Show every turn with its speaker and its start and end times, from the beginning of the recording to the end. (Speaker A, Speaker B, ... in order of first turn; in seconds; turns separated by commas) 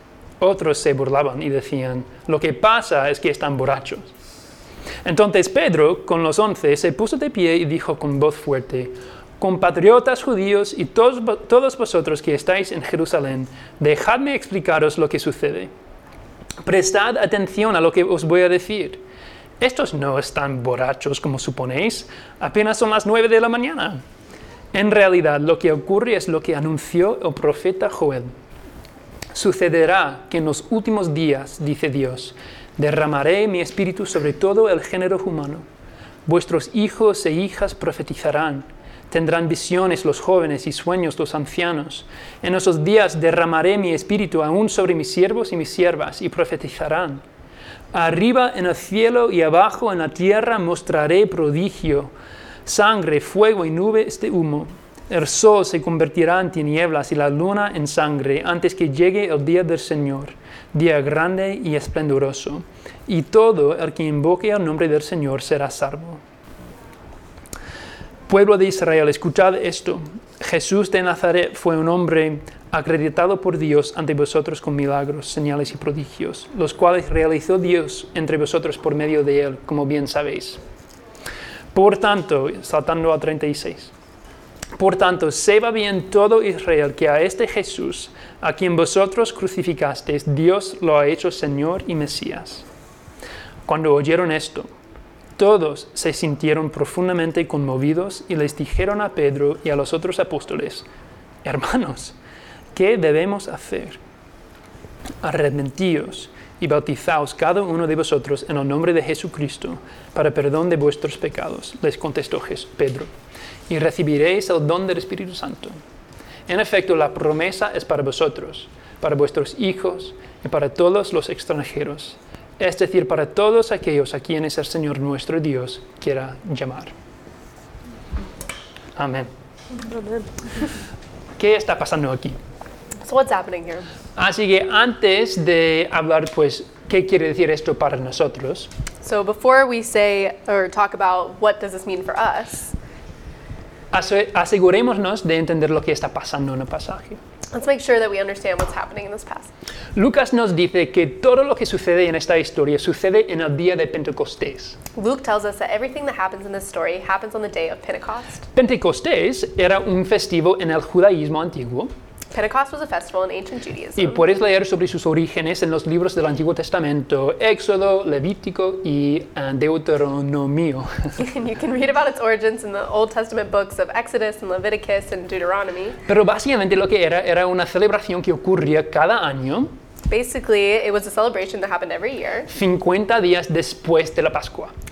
Speaker A: 0.4-4.1, Speaker A: 5.0-15.7, Speaker A: 16.6-19.0, Speaker A: 19.6-24.0, Speaker A: 24.7-28.3, Speaker A: 29.3-35.6, Speaker A: 36.3-47.2, Speaker A: 47.9-52.1, Speaker A: 52.6-66.2, Speaker A: 68.3-80.6, Speaker A: 81.7-83.9, Speaker A: 84.8-92.7, Speaker A: 93.7-94.7, Speaker A: 95.4-100.9, Speaker A: 101.4-102.2, Speaker A: 102.8-104.0, Speaker A: 105.2-113.1, Speaker A: 113.7-115.8, Speaker A: 116.5-126.9, Speaker A: 129.0-129.3, Speaker B: 129.9-130.3, Speaker A: 131.4-132.4, Speaker B: 133.0-133.9, Speaker A: 134.2-138.7, Speaker B: 139.0-142.8, Speaker A: 143.9-147.2, Speaker B: 147.5-149.5, Speaker A: 149.9-154.8, Speaker B: 154.9-158.5, Speaker A: 158.5-161.9, Speaker B: 162.3-164.2, Speaker A: 164.0-171.2, Speaker B: 171.2-176.0, Speaker A: 176.1-179.7, Speaker B: 180.1-182.5, Speaker A: 182.5-184.7